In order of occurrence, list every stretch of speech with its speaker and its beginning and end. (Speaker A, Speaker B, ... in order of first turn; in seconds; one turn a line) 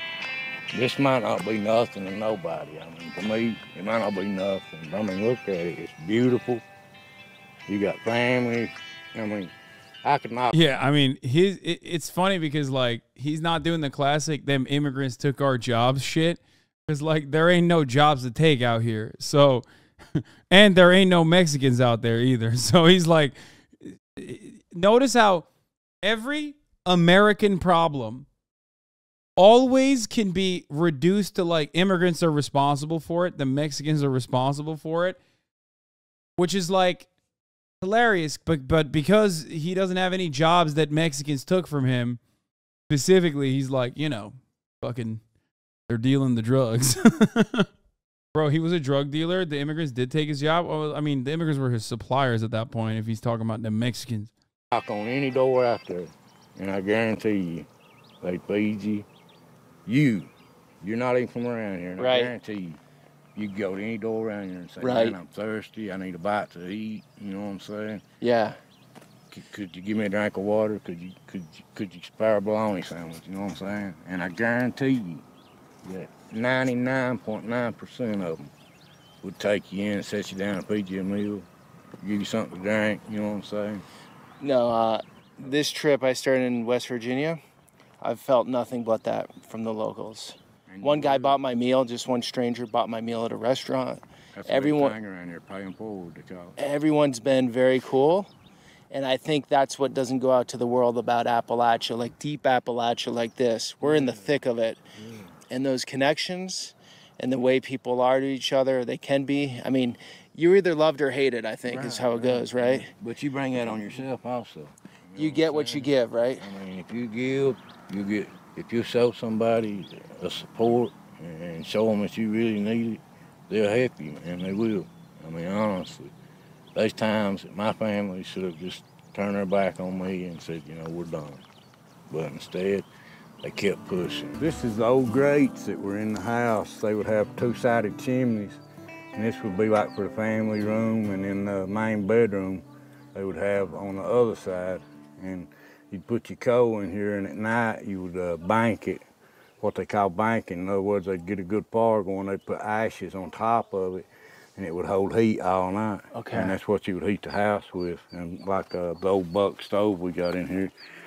Speaker A: 0.7-6.6
Speaker A: 7.7-9.5
Speaker A: 10.0-10.6
Speaker B: 10.5-25.4
Speaker B: 26.0-28.2
Speaker B: 29.4-35.2
Speaker B: 36.4-37.1
Speaker B: 37.8-42.2
Speaker B: 42.9-45.2
Speaker B: 45.9-47.7
Speaker B: 48.3-54.3
Speaker A: 54.7-57.7
Speaker A: 58.2-59.1
Speaker A: 59.9-60.3
Speaker A: 60.8-62.8
Speaker C: 62.0-62.3
Speaker A: 63.3-68.0
Speaker C: 64.8-65.2
Speaker C: 68.2-68.6
Speaker A: 69.3-75.2
Speaker A: 75.8-78.5
Speaker A: 79.2-81.5
Speaker A: 82.0-83.8
Speaker C: 84.4-87.4
Speaker C: 88.0-94.9
Speaker A: 90.7-91.4
Speaker A: 94.3-96.6
Speaker C: 96.6-98.3
Speaker C: 98.9-104.8
Speaker A: 103.8-104.4
Speaker A: 105.0-105.3
Speaker C: 105.5-112.9
Speaker A: 111.7-126.1
Speaker C: 115.2-116.5
Speaker A: 126.7-131.4
Speaker A: 132.1-132.9
Speaker A: 133.4-138.6
Speaker A: 139.1-149.0
Speaker A: 149.6-160.7
Speaker C: 156.1-156.6